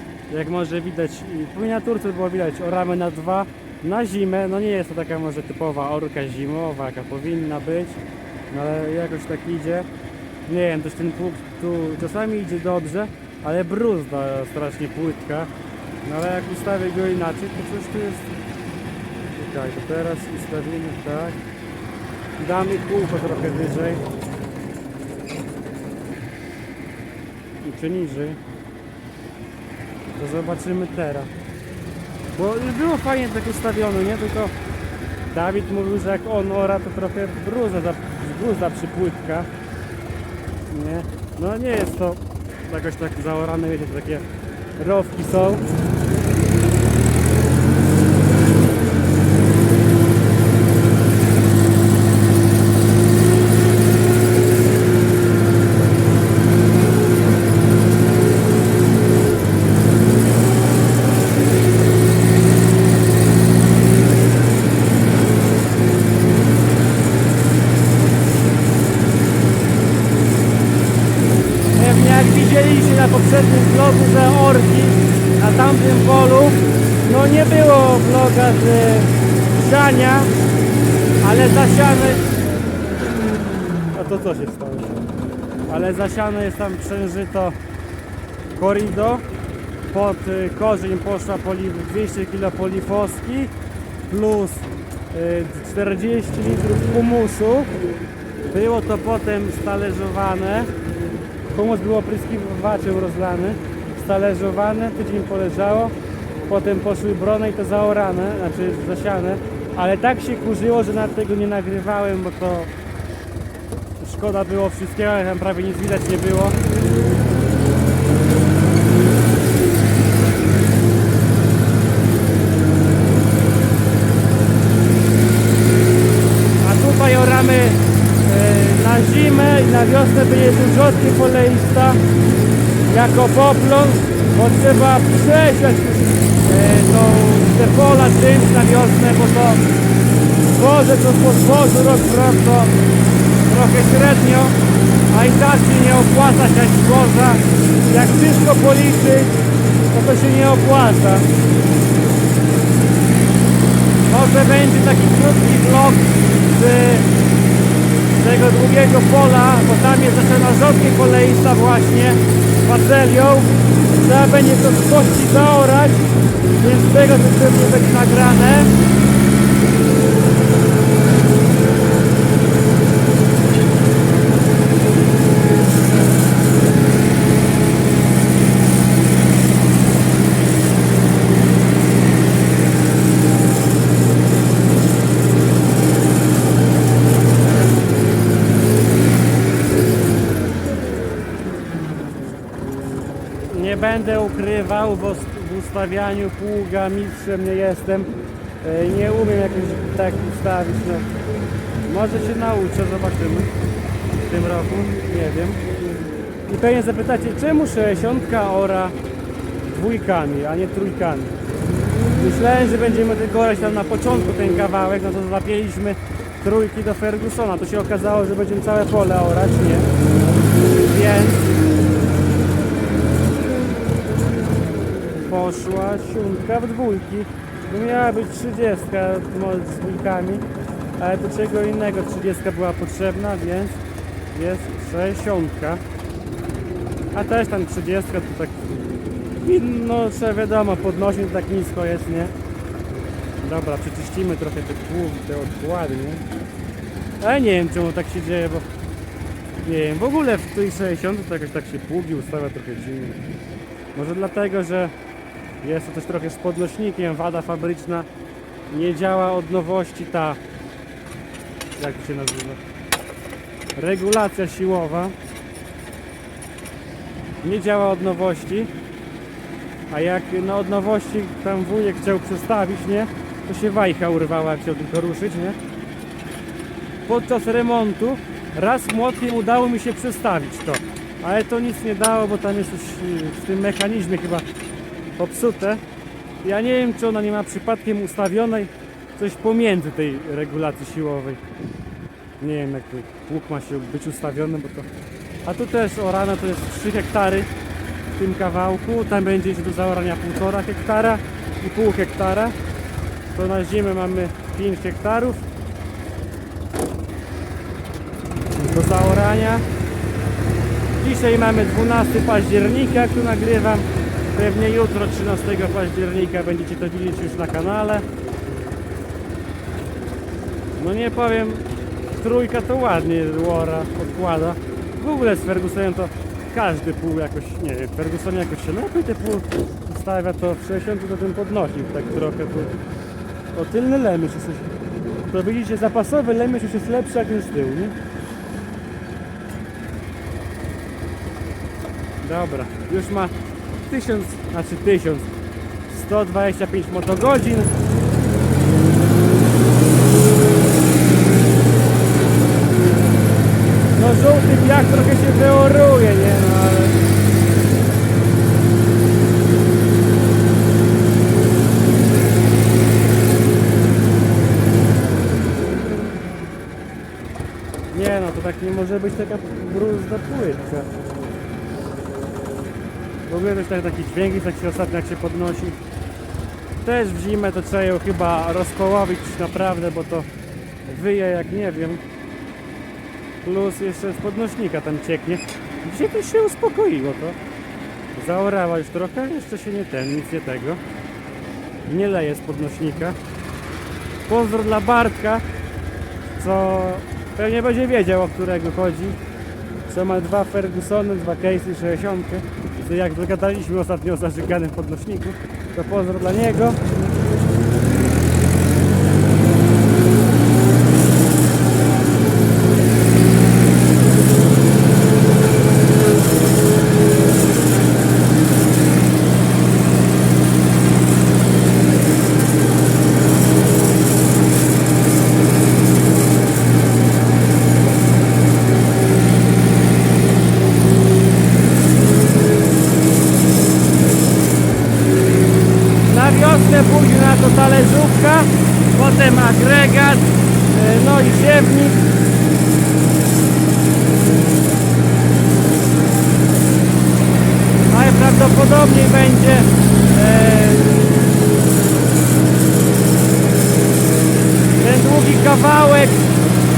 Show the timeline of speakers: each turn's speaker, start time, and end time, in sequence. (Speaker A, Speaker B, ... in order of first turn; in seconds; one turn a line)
Speaker A: 0.3-9.9
Speaker A: 10.5-15.5
Speaker A: 16.0-18.3
Speaker A: 19.3-21.4
Speaker A: 22.4-24.0
Speaker A: 27.6-28.4
Speaker A: 30.2-31.3
Speaker A: 32.3-34.5
Speaker A: 35.3-39.5
Speaker A: 40.7-44.2
Speaker A: 44.8-45.6
Speaker A: 71.8-80.3
Speaker A: 81.2-82.2
Speaker A: 83.9-85.0
Speaker A: 85.7-87.5
Speaker A: 88.5-89.2
Speaker A: 89.9-93.5
Speaker A: 94.1-97.8
Speaker A: 98.5-100.7
Speaker A: 101.5-105.9
Speaker A: 106.5-112.7
Speaker A: 114.0-116.6
Speaker A: 126.6-132.0
Speaker A: 132.8-139.6
Speaker A: 140.5-142.7
Speaker A: 143.4-144.6
Speaker A: 145.1-149.3
Speaker A: 149.9-151.3
Speaker A: 154.1-157.1
Speaker A: 158.2-166.0
Speaker A: 166.6-168.7
Speaker A: 193.5-198.1
Speaker A: 198.6-201.1
Speaker A: 201.8-203.5
Speaker A: 204.2-205.6
Speaker A: 206.4-208.9
Speaker A: 209.7-211.3
Speaker A: 212.2-219.9
Speaker A: 220.8-221.4
Speaker A: 225.3-230.4
Speaker A: 231.0-233.8
Speaker A: 234.3-235.8
Speaker A: 237.1-238.6
Speaker A: 239.4-242.3
Speaker A: 243.4-246.2
Speaker A: 247.2-248.7
Speaker A: 249.6-253.2
Speaker A: 253.9-254.9
Speaker A: 255.6-258.1
Speaker A: 258.7-260.4
Speaker A: 261.8-262.6
Speaker A: 263.8-265.1
Speaker A: 267.4-268.7
Speaker A: 269.9-275.6
Speaker A: 277.1-284.4
Speaker A: 285.1-285.8
Speaker A: 286.4-291.4
Speaker A: 292.4-294.9
Speaker A: 295.4-297.5
Speaker A: 298.2-302.5
Speaker A: 303.3-305.4
Speaker A: 308.5-309.6
Speaker A: 311.0-318.0
Speaker A: 320.8-332.8
Speaker A: 333.5-334.7
Speaker A: 335.3-337.9
Speaker A: 342.2-343.3
Speaker A: 343.8-345.3
Speaker A: 345.9-347.7
Speaker A: 353.9-357.0
Speaker A: 367.9-370.9
Speaker A: 373.3-375.8
Speaker A: 376.8-380.3
Speaker A: 380.9-382.0
Speaker A: 383.4-387.4
Speaker A: 388.1-390.8
Speaker A: 391.9-393.2
Speaker A: 394.3-395.4
Speaker A: 396.4-399.2
Speaker A: 399.9-406.8
Speaker A: 436.1-442.0
Speaker A: 447.9-451.0
Speaker A: 454.8-456.3